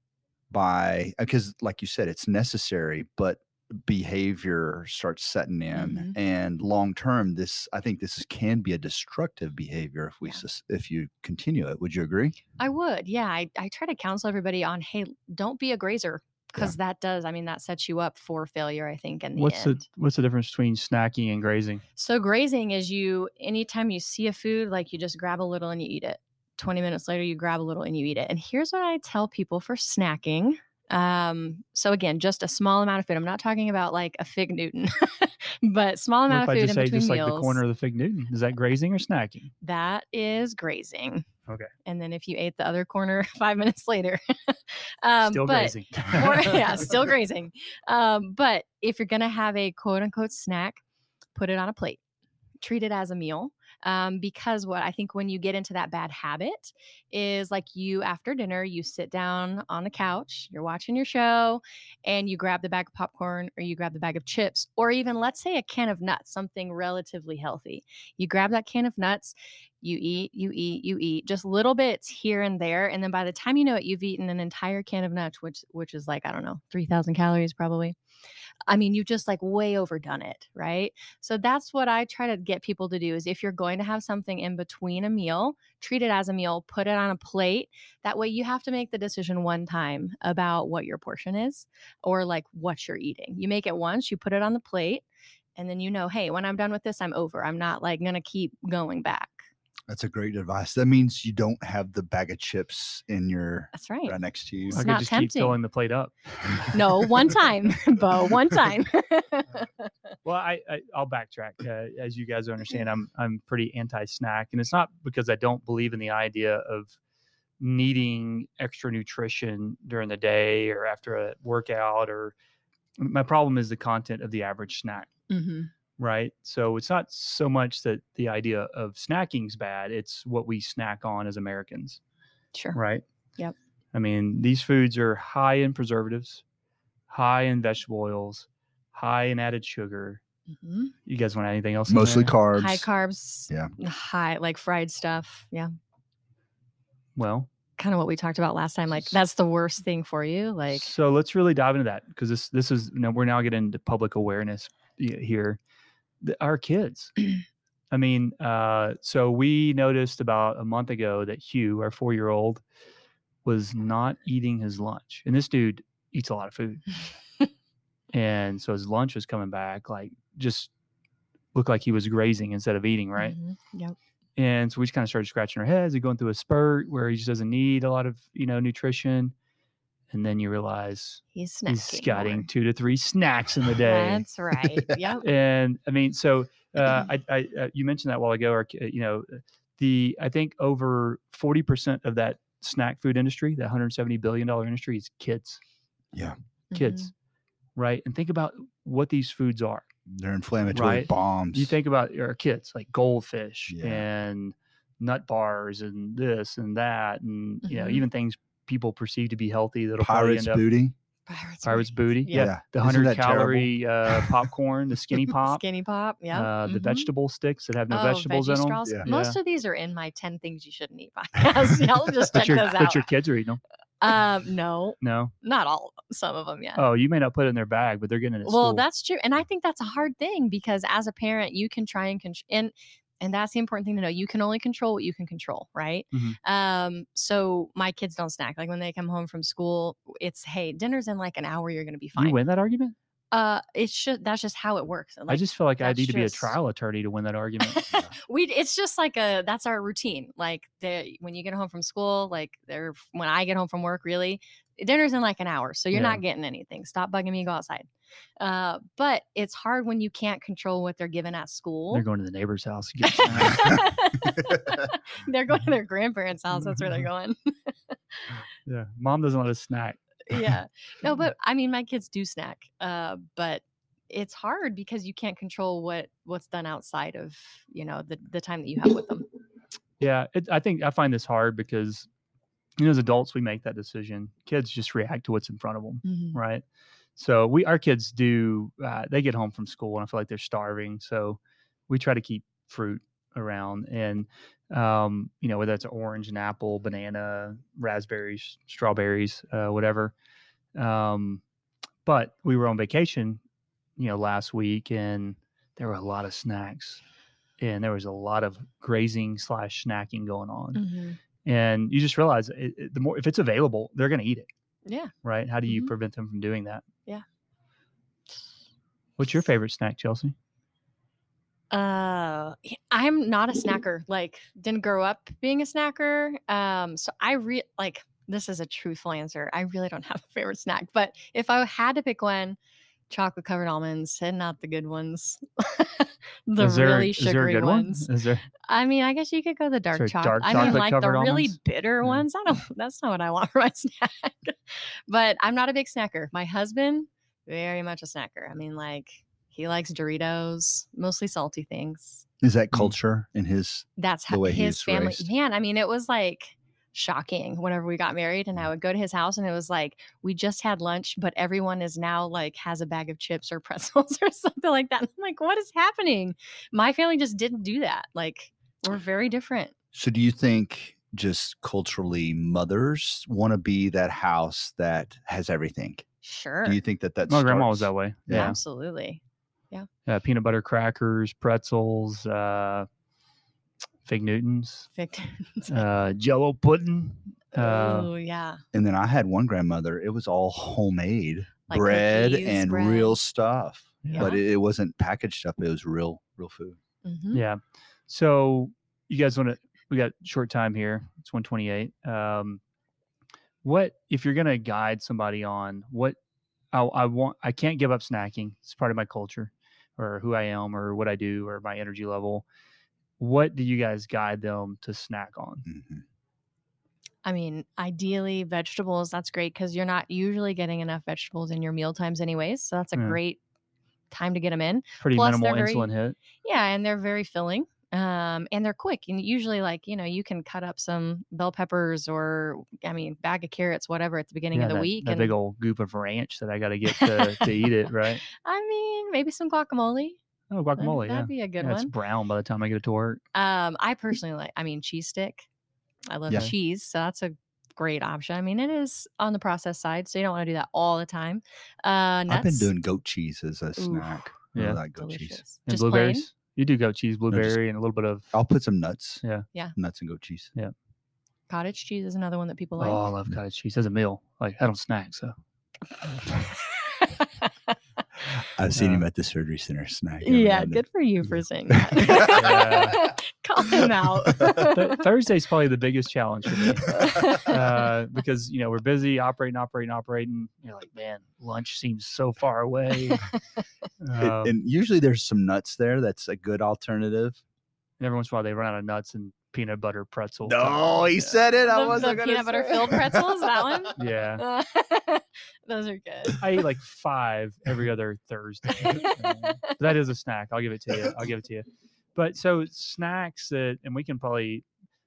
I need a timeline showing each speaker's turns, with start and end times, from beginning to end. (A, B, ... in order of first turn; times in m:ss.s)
0:00.5-0:12.4 A
0:05.7-0:06.1 B
0:12.6-0:19.8 B
0:19.4-0:21.8 C
0:22.0-0:37.6 B
0:36.3-0:39.5 C
0:39.6-0:41.3 B
0:41.8-0:50.8 B
0:45.2-0:46.9 C
0:51.3-0:52.0 B
0:52.6-1:18.0 B
1:18.7-1:35.0 B
1:35.6-1:39.4 B
1:39.9-1:44.8 A
1:43.7-1:44.2 B
1:44.7-1:45.6 B
1:44.7-1:46.7 C
1:46.7-1:49.9 B
1:50.2-1:57.0 C
1:57.6-2:02.3 C
2:03.0-2:05.1 C
2:05.3-2:05.7 B
2:06.0-2:12.0 C
2:12.7-2:13.0 C
2:13.9-2:16.4 C
2:17.1-2:20.2 C
2:20.5-2:20.9 B
2:21.0-2:22.3 C
2:21.9-2:22.8 A
2:22.5-2:25.7 B
2:27.2-2:27.5 C
2:27.8-2:30.9 B
2:30.7-2:35.6 C
2:36.2-2:37.3 C
2:37.9-2:42.6 C
2:43.4-2:47.0 C
2:48.1-2:50.7 C
2:51.5-2:53.4 C
2:53.2-2:54.0 B
2:54.4-2:59.3 C
3:00.1-3:04.2 C
3:01.3-3:02.5 B
3:03.8-3:05.2 B
3:05.2-3:15.6 C
3:16.7-3:17.1 B
3:16.7-3:17.1 C
3:17.8-3:19.9 C
3:20.1-3:21.8 A
3:20.7-3:30.6 C
3:23.7-3:24.0 A
3:27.6-3:28.0 B
3:30.0-3:30.9 A
3:31.3-3:32.5 B
3:31.6-3:35.6 C
3:32.3-3:34.4 A
3:35.4-3:37.1 B
3:36.3-3:39.4 C
3:37.9-3:43.1 B
3:42.3-3:43.6 C
3:44.0-3:46.8 B
3:45.0-3:45.3 C
3:46.8-3:48.8 C
3:48.4-4:02.4 B
3:56.1-3:56.4 C
4:02.2-4:02.9 C
4:03.3-4:06.5 B
4:05.3-4:07.8 C
4:07.6-4:17.9 B
4:15.9-4:16.2 C
4:18.4-4:22.0 B
4:21.9-4:23.8 C
4:23.0-4:28.4 B
4:26.6-4:27.1 C
4:28.6-4:30.0 C
4:30.3-4:39.3 B
4:40.0-4:42.1 C
4:42.8-4:46.6 C
4:46.0-4:46.4 B
4:47.2-5:00.1 C
5:00.8-5:01.4 C
5:02.0-5:03.4 C
5:04.0-5:07.0 C
5:07.6-5:10.8 C
5:10.7-5:11.2 B
5:11.4-5:14.5 C
5:14.8-5:15.1 B
5:15.2-5:16.8 C
5:15.7-5:15.9 B
5:19.2-5:20.3 C
5:21.7-5:32.6 B
5:33.1-5:38.1 B
5:36.6-5:38.4 C
5:38.6-5:52.2 B
5:39.9-5:42.2 C
5:52.4-5:55.3 A
5:54.0-6:09.7 B
6:09.9-6:16.0 A
6:16.2-6:16.8 B
6:16.6-6:18.6 A
6:17.3-6:18.6 C
6:18.3-6:19.9 B
6:20.1-6:22.9 C
6:24.0-6:24.9 C
6:25.0-6:25.8 B
6:25.7-6:28.1 C
6:27.5-6:28.6 B
6:28.7-6:36.8 A
6:31.7-6:33.2 B
6:34.0-6:34.3 C
6:34.1-6:34.4 B
6:37.0-6:37.4 B
6:37.3-6:42.6 C
6:43.6-6:46.2 C
6:46.7-6:52.4 C
6:53.2-6:55.6 C
6:55.6-6:56.0 A
6:57.2-7:03.4 B
7:04.1-7:05.9 B
7:05.0-7:06.2 C
7:06.4-7:15.3 B
7:14.5-7:18.2 C
7:16.9-7:17.7 B
7:18.3-7:20.2 B
7:20.5-7:23.2 C
7:20.8-7:21.9 B
7:23.3-7:25.5 B
7:26.1-7:32.7 B
7:32.3-7:35.4 A
7:33.8-7:34.2 B
7:34.5-7:34.8 C
7:35.0-7:36.3 B
7:35.6-7:38.3 C
7:37.3-7:37.6 A
7:38.3-7:39.2 A
7:39.8-7:40.5 A
7:41.5-7:43.0 B
7:42.8-7:45.3 C
7:46.2-7:47.7 B
7:48.3-7:50.8 A
7:48.7-7:49.0 C
7:50.2-7:55.0 B
7:51.7-7:52.4 A
7:52.2-7:53.1 C
7:53.8-7:54.7 A
7:54.5-8:03.3 C
7:56.8-7:57.9 B
8:04.0-8:04.5 C
8:04.2-8:07.4 A
8:08.0-8:11.4 C
8:10.4-8:13.7 A
8:11.7-8:16.4 B
8:14.0-8:14.4 C
8:16.4-8:24.6 C
8:18.8-8:19.7 B